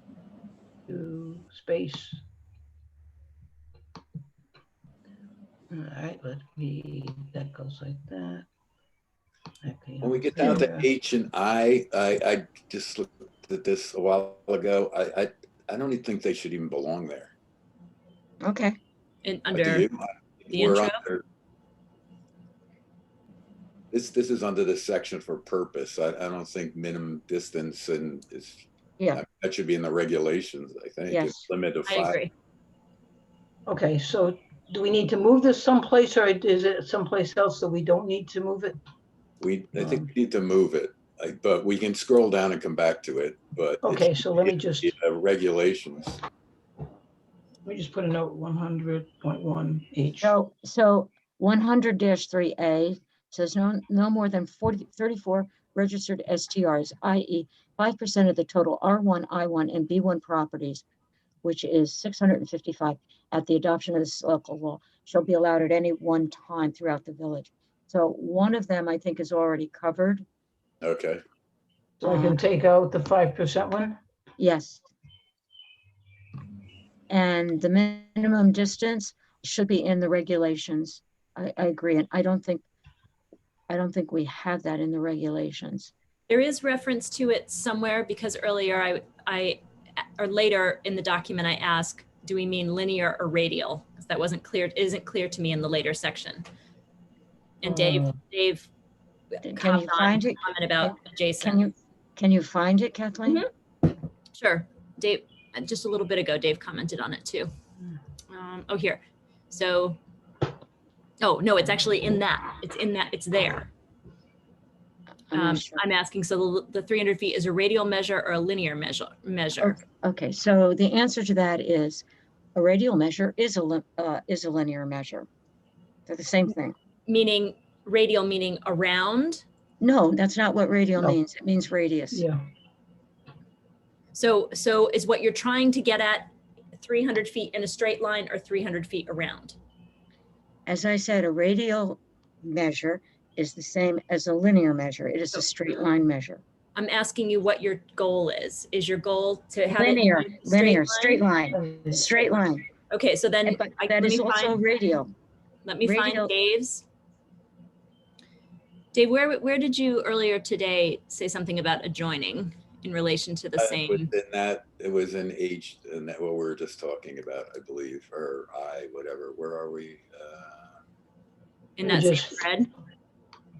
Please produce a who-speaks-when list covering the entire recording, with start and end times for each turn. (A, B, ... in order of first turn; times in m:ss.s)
0:00.9-0:02.2 A
0:05.7-0:08.4 A
0:09.6-0:10.9 A
0:10.0-0:17.3 B
0:18.4-0:18.8 C
0:19.2-0:19.9 D
0:19.5-0:21.2 B
0:20.5-0:21.0 D
0:23.9-0:32.2 B
0:31.1-0:31.4 C
0:31.9-0:32.3 D
0:33.6-0:38.8 A
0:39.4-0:46.2 B
0:43.8-0:44.9 A
0:47.6-0:50.3 A
0:50.2-1:00.8 C
1:01.4-1:10.2 C
1:10.8-1:11.2 B
1:12.0-1:14.0 A
1:12.0-1:12.4 C
1:14.4-1:14.8 C
1:17.1-1:22.6 C
1:23.7-1:25.9 C
1:26.3-1:29.6 D
1:30.2-1:36.4 D
1:37.6-1:38.7 D
1:37.7-1:38.1 A
1:39.4-1:41.6 D
1:39.4-1:43.4 C
1:44.4-1:47.5 D
1:48.3-1:50.0 D
1:51.2-1:53.7 D
1:55.3-1:55.8 C
1:55.3-1:59.8 D
1:59.6-2:05.3 C
2:06.0-2:06.7 C
2:07.1-2:09.4 D
2:09.8-2:12.2 C
2:12.1-2:12.4 A
2:14.1-2:19.6 D
2:20.7-2:26.4 C
2:26.8-2:31.2 D
2:29.7-2:32.6 C
2:31.6-2:32.0 A
2:32.9-2:34.6 D
2:33.4-2:35.1 C
2:35.6-2:36.8 D
2:35.8-2:36.3 C
2:38.9-2:44.1 D
2:43.6-2:50.7 B
2:51.8-2:52.7 D
2:51.8-2:52.4 A